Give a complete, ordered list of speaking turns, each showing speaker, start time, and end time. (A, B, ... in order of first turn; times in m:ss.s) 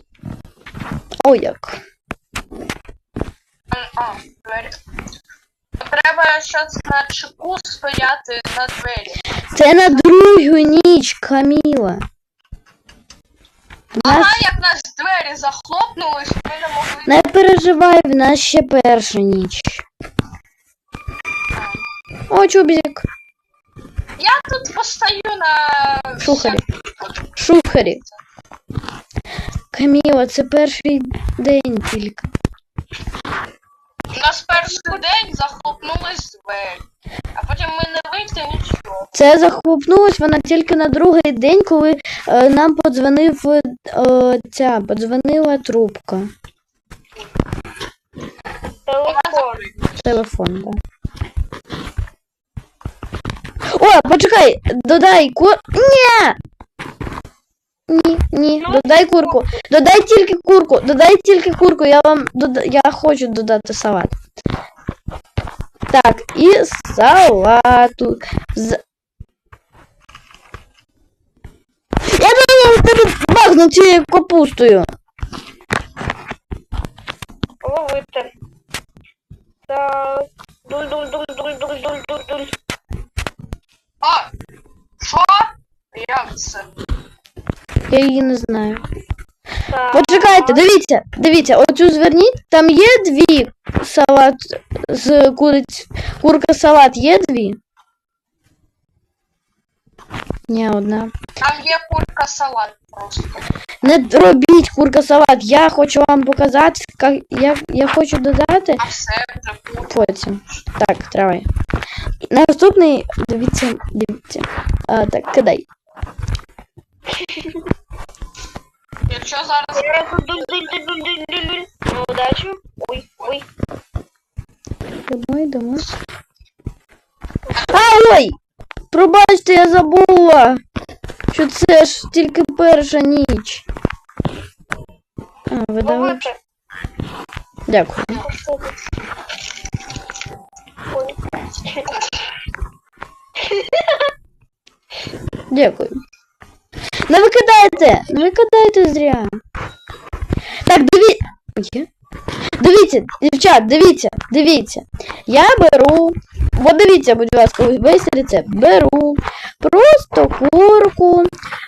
0:01.2-0:01.8 A
0:03.7-0:04.8 B
0:05.8-0:09.2 B
0:09.5-0:12.0 A
0:09.8-0:10.1 B
0:13.9-0:14.5 A
0:14.0-0:17.2 B
0:17.0-0:19.8 A
0:21.5-0:21.8 B
0:22.3-0:23.0 A
0:24.2-0:28.2 B
0:26.2-0:26.6 A
0:27.4-0:28.0 A
0:29.7-0:32.3 A
0:34.1-0:36.8 B
0:37.3-0:39.1 B
0:39.1-0:46.3 A
0:48.8-0:49.6 C
0:49.0-0:50.2 B
0:50.0-0:50.8 A
0:53.7-0:56.4 A
0:57.9-1:04.1 A
0:58.6-0:59.6 C
1:05.9-1:08.8 A
1:12.1-1:14.8 A
1:17.6-1:18.3 C
1:19.7-1:22.5 C
1:24.0-1:24.3 B
1:25.0-1:26.7 B
1:27.9-1:28.8 A
1:29.7-1:30.6 C
1:29.9-1:37.6 A
1:40.5-1:41.1 A
1:41.4-1:43.5 B
1:43.8-1:48.8 A
1:48.8-1:50.6 B
1:49.9-1:51.5 A
1:52.3-1:55.6 A
1:57.1-1:57.6 C
1:59.1-2:00.7 B
1:59.7-2:03.4 C
2:05.1-2:05.9 A
2:07.5-2:07.8 B
2:07.7-2:08.4 A
2:08.9-2:10.6 A
2:11.3-2:13.6 A
2:15.5-2:16.2 A
2:15.8-2:16.4 C
2:17.7-2:18.2 A
2:18.1-2:18.7 C
2:20.9-2:21.9 C
2:23.4-2:24.1 C
2:25.5-2:25.9 A
2:27.1-2:29.3 A
2:30.6-2:31.9 A
2:32.6-2:41.3 A